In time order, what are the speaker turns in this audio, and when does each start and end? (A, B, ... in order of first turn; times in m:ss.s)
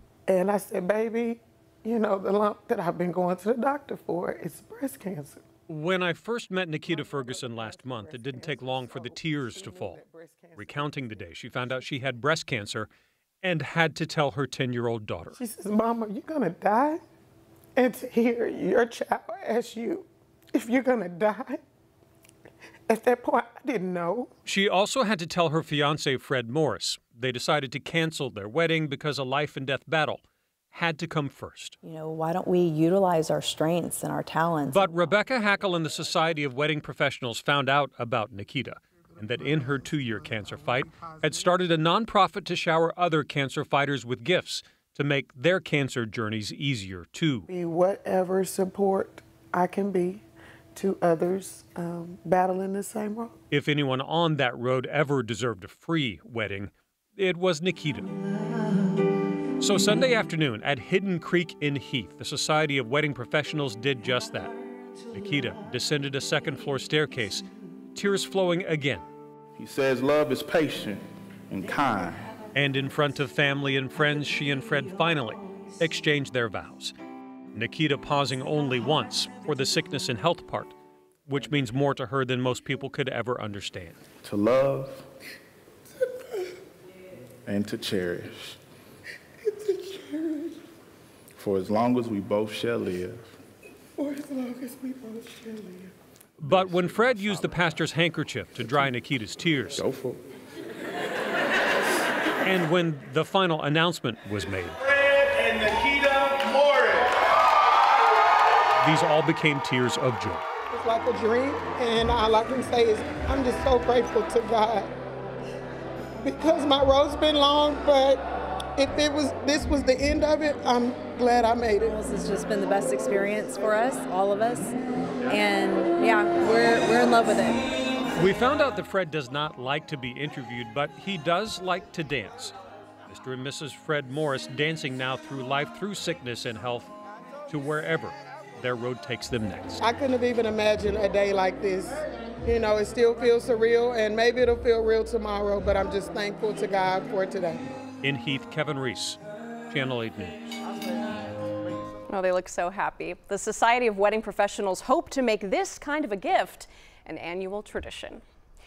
0:00.3-0:05.4 A
0:05.7-0:10.0 B
0:06.9-0:11.3 A
0:10.6-0:12.9 B
0:13.4-0:15.4 B
0:15.4-0:17.0 A
0:17.8-0:21.6 A
0:22.9-0:24.3 A
0:24.4-0:31.8 B
0:31.8-0:35.0 C
0:34.7-0:47.5 B
0:47.5-0:50.2 A
0:50.8-0:53.4 A
0:53.5-0:58.1 B
0:59.6-1:04.5 B
1:05.1-1:09.1 B
1:09.6-1:12.4 D
1:12.5-1:17.0 B
1:17.5-1:20.8 B
1:21.3-1:24.0 B
1:24.2-1:25.0 D
1:26.1-1:26.4 A
1:27.5-1:28.6 D
1:29.4-1:30.6 A
1:31.4-1:33.3 D
1:34.0-1:35.9 A
1:36.4-1:39.8 B
1:36.4-1:37.8 D
1:39.8-1:40.2 D
1:42.4-1:44.8 B
1:45.4-1:46.8 D
1:48.8-1:50.4 B
1:50.7-1:54.9 A
1:56.2-1:58.2 A
1:58.8-2:02.0 A
2:01.8-2:04.7 C
2:05.3-2:07.6 C
2:08.2-2:12.6 B
2:13.1-2:16.9 B
2:17.5-2:19.8 B
2:19.8-2:27.6 A
2:28.0-2:30.6 B
2:32.1-2:38.2 E